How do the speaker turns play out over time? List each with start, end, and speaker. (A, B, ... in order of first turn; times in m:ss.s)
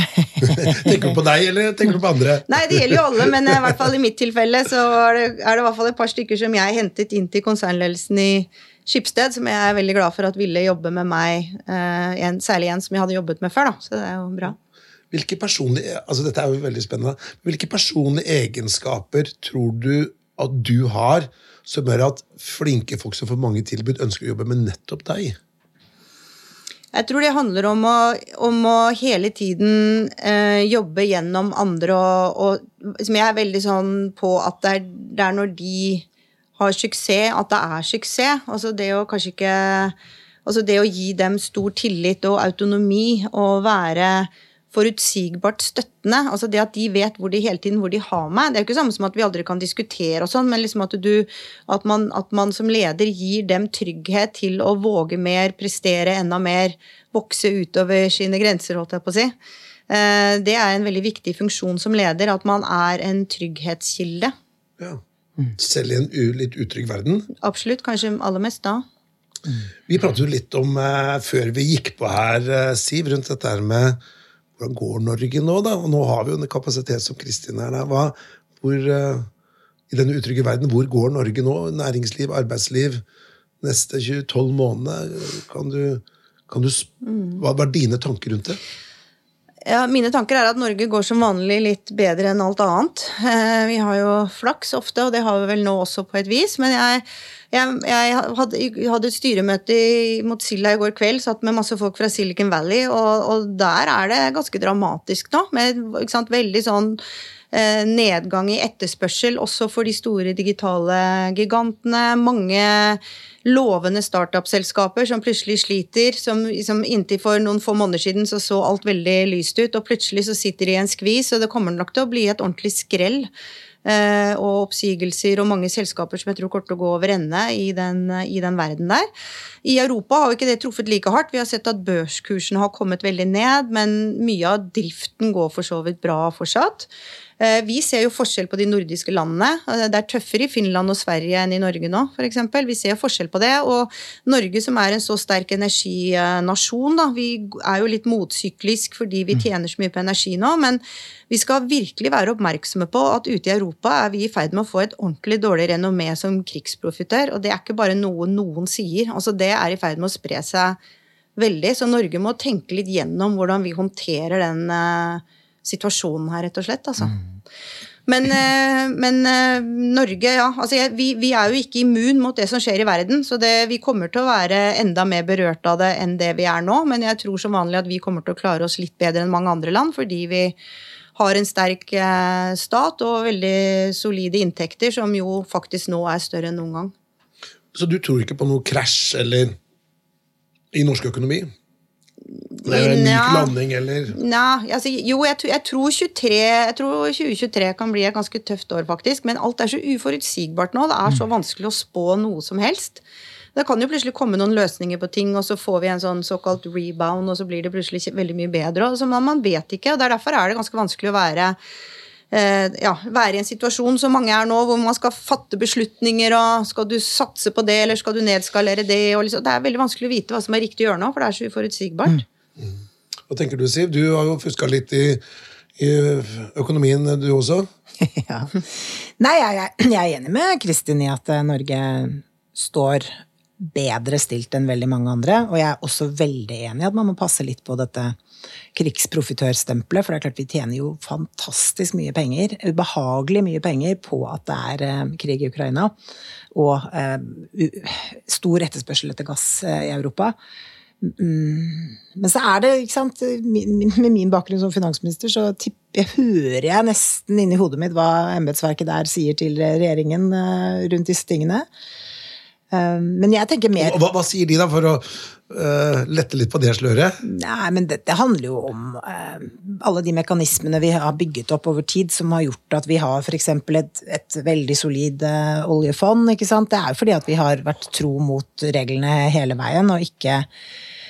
0:00.4-0:03.0 A
0:02.5-0:14.6 B
0:15.1-0:25.4 A
0:26.9-0:36.0 B
0:36.6-0:59.3 B
0:59.9-1:04.3 B
1:05.6-1:07.3 A
1:07.4-1:08.8 B
1:09.9-1:14.0 A
1:14.6-1:19.3 A
1:19.9-1:23.0 A
1:23.6-1:28.6 A
1:27.0-1:27.4 B
1:29.6-1:47.0 B
1:47.5-2:03.3 B
2:03.8-2:09.0 B
2:09.6-2:40.8 B
2:41.4-2:47.2 B
2:48.1-3:00.6 B
3:01.1-3:06.9 B
3:07.7-3:09.6 A
3:10.7-3:11.5 A
3:12.6-3:13.5 B
3:12.6-3:14.2 A
3:14.1-3:23.0 B
3:23.5-3:31.6 B
3:32.3-3:42.2 B
3:42.6-3:45.2 A
3:45.8-3:47.7 A
3:48.0-3:58.2 C
3:58.7-4:05.9 C
4:06.5-4:10.3 C
4:11.0-4:21.6 C
4:22.7-4:24.0 C
4:23.8-4:27.2 A
4:27.2-4:40.5 C